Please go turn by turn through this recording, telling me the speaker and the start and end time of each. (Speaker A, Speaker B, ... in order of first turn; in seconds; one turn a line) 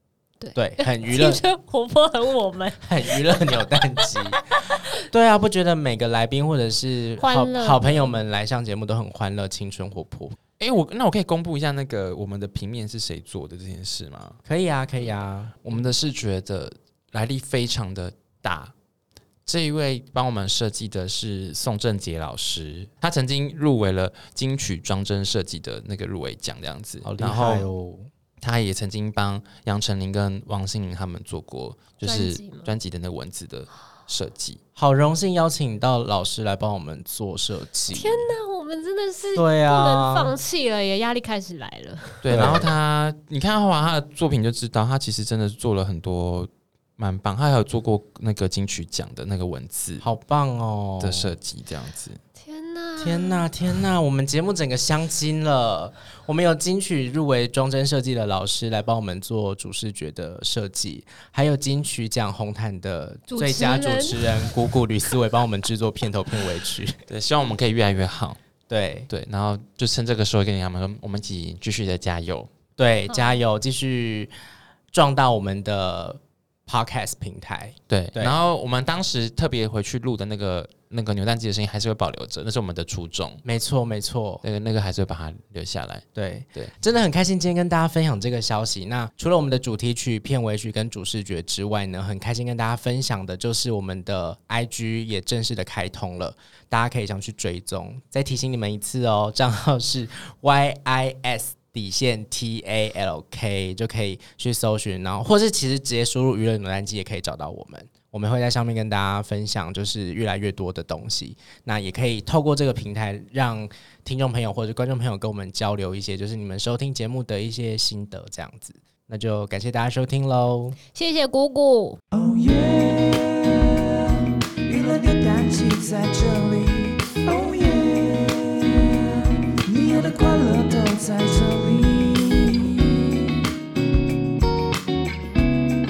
Speaker A: 0.4-3.5
Speaker B: 0.5-1.4
Speaker B: 2.8-4.4
Speaker A: 4.3-4.8
Speaker B: 5.1-10.4
Speaker A: 7.2-8.1
Speaker C: 10.6-14.4
Speaker B: 14.4-15.6
Speaker C: 15.6-18.7
Speaker C: 19.4-27.7
Speaker B: 27.0-28.1
Speaker C: 28.4-34.6
Speaker A: 32.0-32.7
Speaker B: 34.8-38.3
Speaker A: 37.9-42.6
Speaker B: 39.3-40.3
Speaker C: 42.2-50.0
Speaker B: 42.3-42.6
Speaker B: 50.0-51.4
Speaker C: 51.0-52.2
Speaker A: 52.4-53.5
Speaker B: 53.0-67.0
Speaker A: 63.3-64.5
Speaker C: 67.1-68.4
Speaker B: 68.7-69.1
Speaker C: 69.1-72.5
Speaker B: 72.8-74.3
Speaker A: 73.1-73.4
Speaker B: 74.9-78.4
Speaker C: 77.9-83.4
Speaker B: 83.4-84.4
Speaker C: 84.4-86.0
Speaker B: 86.1-120.8
Speaker A: 120.9-122.0
Speaker D: 122.1-133.4